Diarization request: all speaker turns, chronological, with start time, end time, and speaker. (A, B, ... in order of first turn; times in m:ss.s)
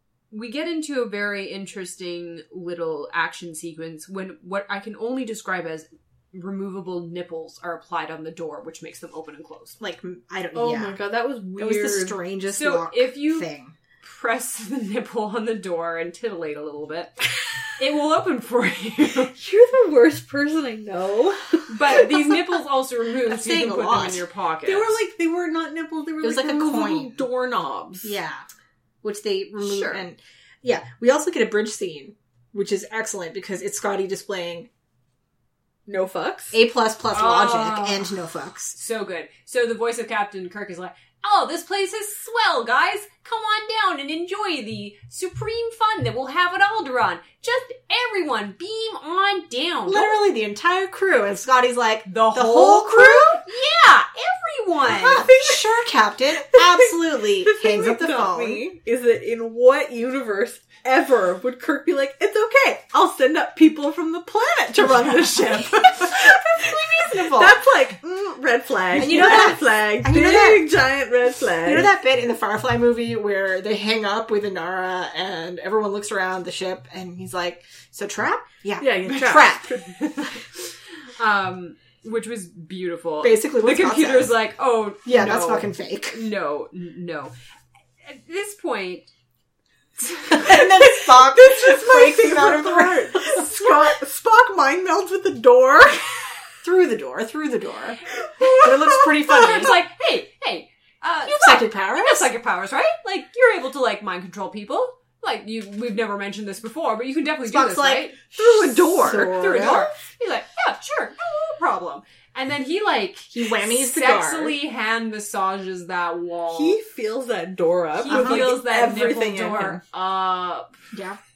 0:00.3-0:09.8 A
0:09.8-0:11.0 B
0:10.5-0:12.2 C
0:11.6-0:13.7 B
0:12.5-0:13.5 A
0:14.0-0:19.3 A
0:19.3-0:22.4 C
0:21.7-0:25.0 A
0:23.2-0:24.2 B
0:24.6-0:28.2 C
0:26.2-0:27.2 B
0:28.0-0:28.4 B
0:29.0-0:34.7 B
0:29.6-0:30.0 A
0:35.9-0:36.6 C
0:36.5-0:38.8 B
0:37.1-0:38.1 A
0:38.7-0:50.2 A
0:49.8-0:53.4 B
0:52.1-0:55.3 A
0:54.8-0:58.7 B
0:55.3-0:55.7 C
0:56.5-1:11.9 C
1:04.7-1:07.6 B
1:08.9-1:10.7 B
1:11.6-1:19.7 B
1:18.8-1:20.3 C
1:21.2-1:27.3 A
1:23.2-1:24.4 B
1:25.0-1:26.2 B
1:28.0-1:29.1 A
1:30.3-1:33.9 B
1:30.4-1:36.4 C
1:36.6-1:39.8 B
1:38.3-1:39.4 C
1:39.2-1:56.8 A
1:41.2-1:42.3 B
1:47.4-1:48.1 B
1:48.3-1:49.7 C
1:49.0-1:49.9 B
1:53.3-1:54.6 B
1:56.5-1:59.8 C
1:58.0-2:00.7 A
1:58.1-1:58.5 B
2:00.9-2:01.2 B